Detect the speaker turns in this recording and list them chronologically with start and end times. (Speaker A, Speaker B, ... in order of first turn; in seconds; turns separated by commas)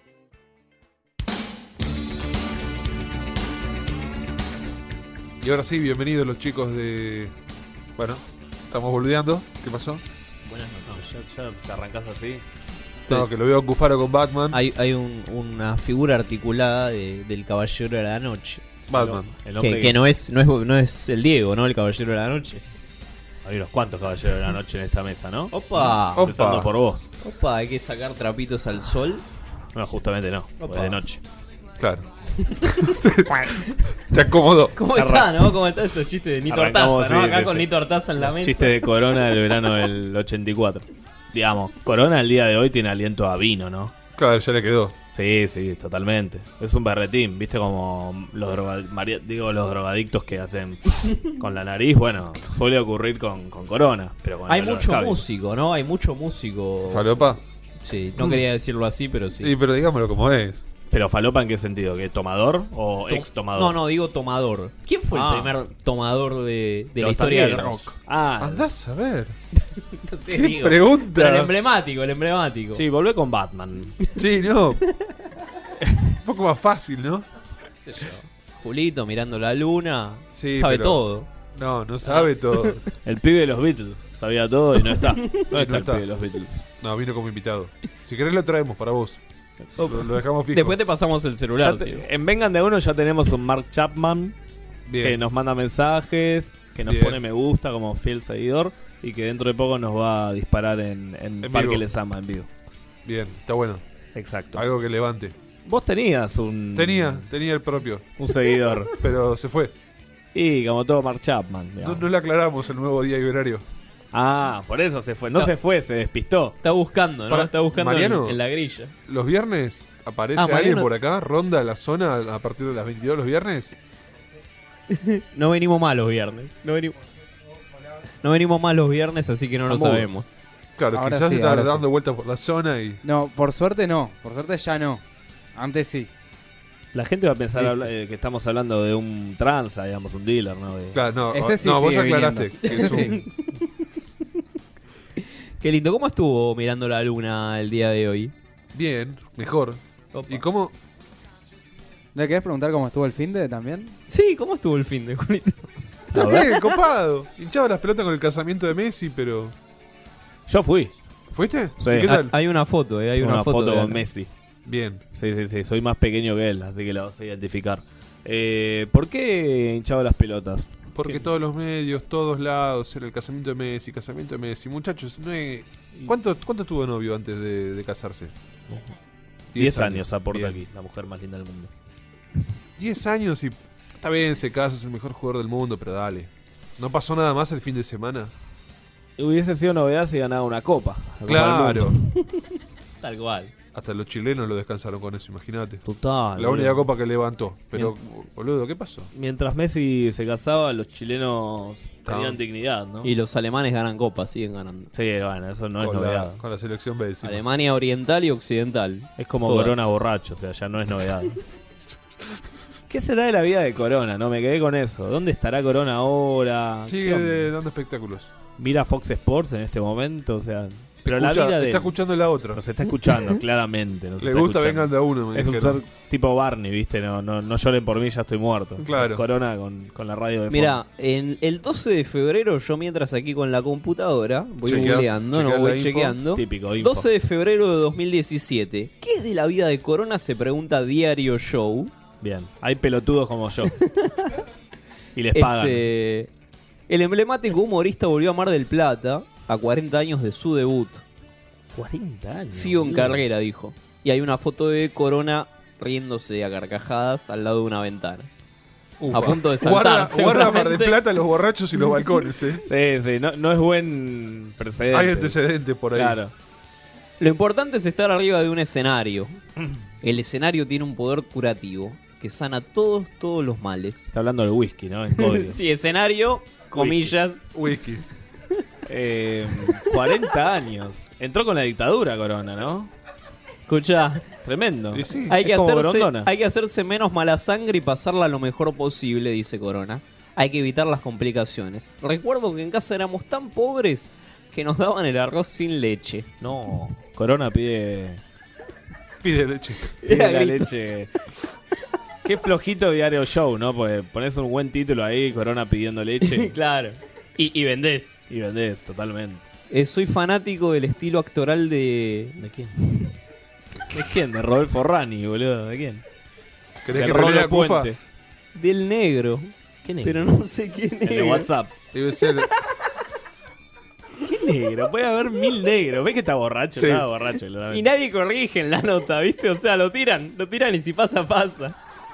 Speaker A: 5.4-7.3, Speaker A: 8.0-10.0, Speaker B: 10.4-11.1, Speaker C: 10.9-12.4, Speaker A: 13.1-14.6, Speaker B: 14.5-18.6, Speaker A: 18.9-19.3, Speaker C: 18.9-20.0, Speaker B: 19.6-22.6, Speaker C: 23.4-25.6, Speaker B: 25.5-26.3, Speaker A: 26.1-26.7, Speaker C: 26.2-27.0, Speaker B: 27.2-29.2, Speaker C: 29.7-31.2, Speaker B: 30.6-31.0, Speaker A: 31.8-32.1, Speaker A: 32.6-34.8, Speaker B: 34.7-38.8, Speaker C: 34.9-35.5, Speaker C: 36.5-43.9, Speaker A: 44.2-44.9, Speaker C: 45.1-55.2, Speaker B: 54.5-57.2, Speaker A: 56.9-57.4, Speaker B: 57.8-59.5, Speaker A: 59.4-60.6, Speaker C: 60.9-63.8, Speaker B: 63.1-67.9, Speaker C: 65.1-65.5, Speaker C: 67.0-68.7, Speaker A: 68.4-69.4, Speaker B: 69.9-72.8, Speaker A: 70.3-71.5, Speaker C: 72.7-74.0, Speaker A: 74.1-74.9, Speaker A: 76.2-77.3, Speaker B: 77.8-81.3, Speaker A: 80.3-81.0, Speaker A: 81.5-82.8, Speaker B: 82.0-82.8, Speaker C: 83.0-86.6, Speaker A: 85.5-86.0, Speaker A: 86.8-89.2, Speaker B: 89.8-92.0, Speaker A: 89.8-90.8, Speaker C: 91.6-94.3, Speaker A: 94.9-95.2, Speaker C: 95.0-102.5, Speaker A: 96.8-97.2, Speaker A: 101.4-101.8, Speaker A: 103.0-103.8, Speaker C: 104.1-104.6, Speaker A: 104.5-105.3, Speaker C: 105.7-107.3, Speaker A: 106.7-108.1, Speaker C: 108.2-109.0, Speaker A: 109.0-109.7, Speaker C: 110.3-112.1, Speaker A: 111.8-113.6, Speaker C: 114.1-116.6, Speaker B: 116.6-118.9, Speaker A: 117.3-118.4, Speaker A: 119.1-123.8, Speaker B: 120.3-120.9, Speaker B: 124.9-127.0, Speaker B: 128.2-130.3, Speaker C: 129.7-130.1, Speaker A: 130.8-133.0, Speaker D: 130.9-131.8, Speaker D: 133.0-135.0, Speaker D: 135.5-136.1, Speaker C: 136.9-141.0, Speaker A: 140.9-143.2, Speaker D: 141.3-143.2, Speaker B: 142.6-143.7, Speaker B: 145.6-148.3, Speaker A: 148.7-150.7, Speaker B: 150.1-150.4, Speaker D: 152.1-153.9, Speaker B: 154.1-155.8, Speaker A: 156.1-159.5, Speaker C: 156.1-156.6, Speaker C: 160.5-160.9, Speaker A: 161.3-162.3, Speaker C: 161.8-162.2, Speaker B: 162.1-164.0, Speaker C: 163.2-164.3, Speaker A: 164.6-165.0, Speaker C: 165.1-171.2, Speaker A: 170.9-178.3, Speaker A: 179.5-180.6, Speaker C: 179.6-181.7, Speaker A: 182.8-188.3, Speaker C: 189.2-192.2, Speaker A: 191.2-191.9, Speaker B: 193.0-193.5, Speaker A: 193.7-195.8, Speaker C: 195.8-196.9, Speaker A: 196.3-199.1, Speaker C: 199.1-203.1, Speaker A: 202.1-202.4, Speaker B: 203.0-204.9, Speaker C: 204.9-206.4, Speaker A: 205.8-207.4, Speaker B: 207.2-209.8, Speaker C: 209.2-211.4, Speaker C: 212.9-217.5, Speaker A: 216.8-218.3, Speaker C: 218.6-221.9, Speaker A: 221.0-222.6, Speaker C: 222.5-230.8, Speaker A: 224.2-225.8, Speaker A: 228.8-229.2, Speaker B: 230.5-241.9, Speaker A: 234.6-236.2, Speaker C: 236.3-237.1, Speaker C: 242.2-243.9, Speaker B: 243.8-244.3, Speaker C: 245.1-245.9, Speaker B: 245.3-246.3, Speaker B: 246.9-251.0, Speaker C: 251.7-253.2, Speaker B: 252.5-258.3, Speaker A: 259.0-262.6, Speaker B: 259.1-261.0, Speaker C: 262.6-265.4, Speaker A: 264.9-266.2, Speaker C: 265.9-266.3, Speaker B: 267.2-269.4, Speaker B: 270.0-274.1, Speaker C: 274.1-275.6, Speaker B: 275.2-277.4, Speaker C: 276.7-277.1, Speaker A: 277.5-278.0, Speaker C: 278.9-282.9, Speaker B: 283.7-284.3, Speaker C: 284.4-286.3, Speaker A: 284.9-285.4, Speaker B: 285.3-296.3, Speaker C: 296.4-298.2, Speaker A: 299.2-299.9, Speaker B: 300.0-300.9, Speaker C: 300.1-301.1, Speaker C: 302.2-306.5, Speaker B: 306.2-308.2, Speaker C: 308.3-309.4, Speaker B: 309.7-312.4, Speaker C: 312.4-313.1, Speaker C: 313.9-316.0, Speaker A: 316.8-317.9, Speaker C: 316.9-318.0, Speaker B: 318.5-321.5, Speaker C: 319.8-320.3, Speaker C: 321.0-321.7, Speaker A: 321.9-322.5, Speaker C: 324.2-327.9, Speaker A: 326.8-327.1, Speaker B: 327.7-331.8